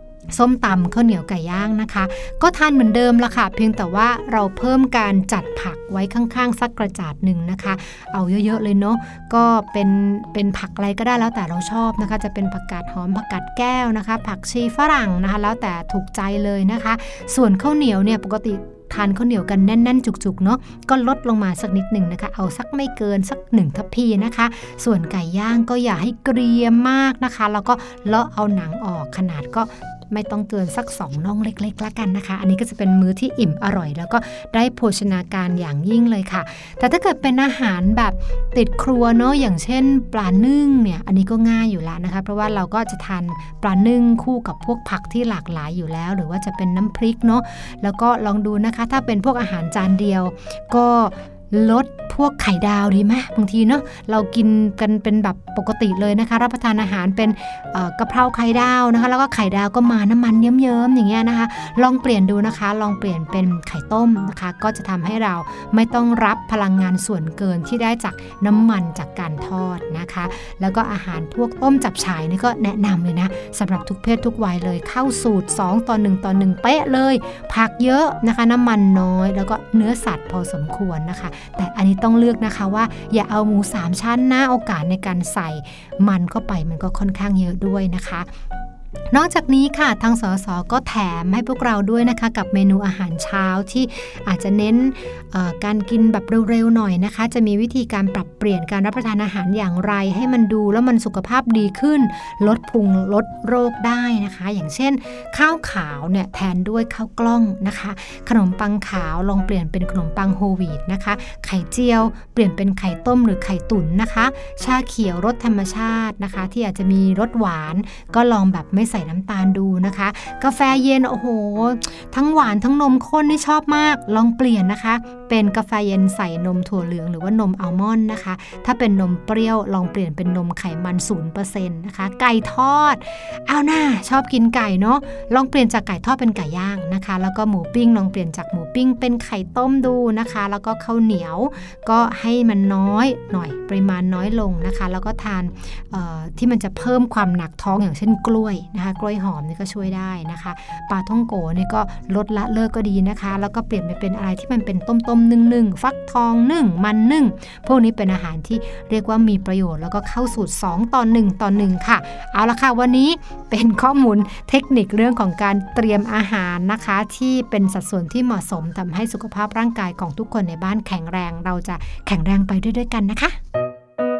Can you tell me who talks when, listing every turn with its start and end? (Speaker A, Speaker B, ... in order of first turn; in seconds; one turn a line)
Speaker A: 0.3-88.3
Speaker A: 89.1-173.4